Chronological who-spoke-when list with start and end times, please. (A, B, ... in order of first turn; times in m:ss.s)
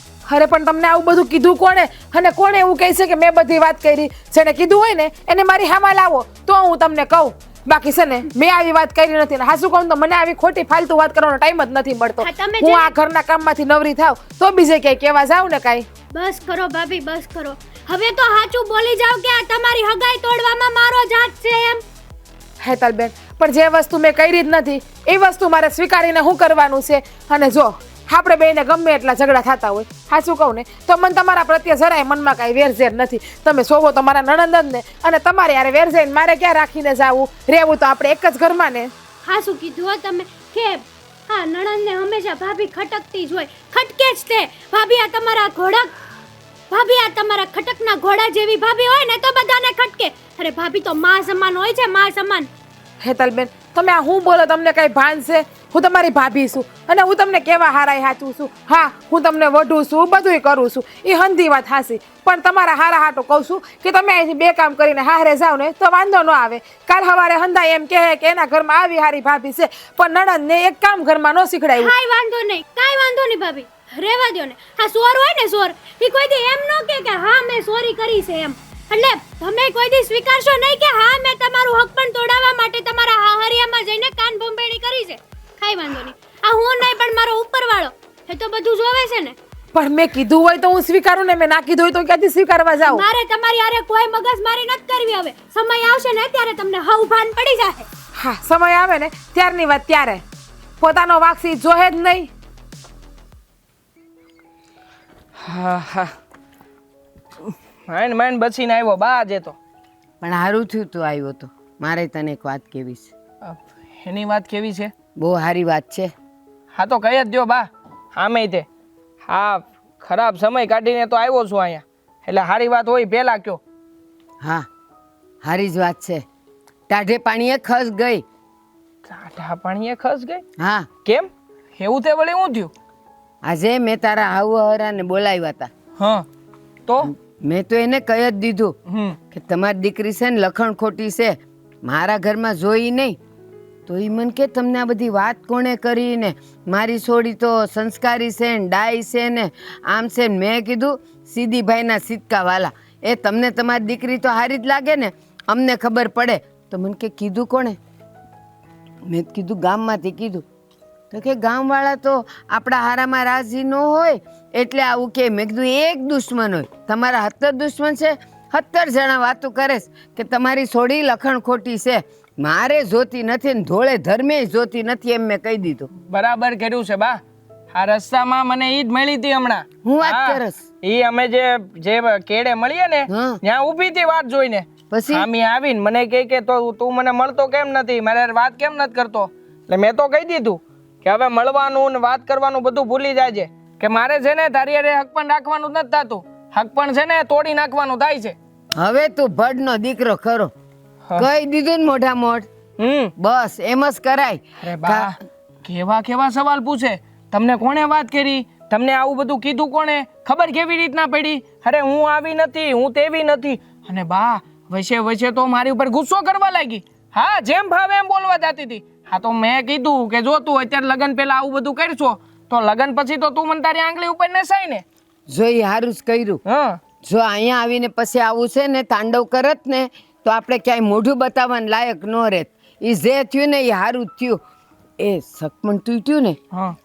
0:00.2-0:15.9 A
0:12.2-0:12.9 B
0:16.1-0:21.8 B
0:22.6-0:38.9 A
0:39.2-0:45.9 B
0:46.7-0:52.5 B
0:53.0-1:11.9 A
1:11.8-1:29.4 B
1:29.7-1:33.0 A
1:32.8-1:37.9 B
1:38.2-1:40.2 A
1:40.8-1:42.3 A
1:45.4-1:46.1 C
1:47.4-1:49.6 C
1:50.2-1:53.1 D
1:53.4-1:54.9 C
1:55.2-1:56.1 D
1:56.7-1:58.6 C
1:59.2-2:03.6 C
2:05.4-2:06.2 D
2:06.9-2:08.2 D
2:09.1-2:10.4 C
2:10.6-2:10.9 D
2:11.0-2:12.7 C
2:13.4-2:15.7 D
2:16.0-2:16.2 C
2:17.1-2:18.8 D
2:18.9-2:19.2 C
2:19.3-2:23.2 D
2:23.9-2:37.8 D
2:39.1-2:40.4 D
2:41.1-2:55.9 D
2:56.1-2:57.2 C
2:57.7-3:18.4 C
2:59.8-3:00.6 D
3:03.1-3:03.4 D
3:04.9-3:05.3 D
3:18.8-3:20.5 D
3:21.1-3:22.5 D
3:22.8-3:23.1 C
3:23.2-3:25.1 D
3:24.6-3:44.8 C
3:45.3-3:46.4 D
3:46.5-3:46.8 C
3:47.0-3:54.4 D
3:55.0-3:56.4 D
3:56.5-3:56.8 C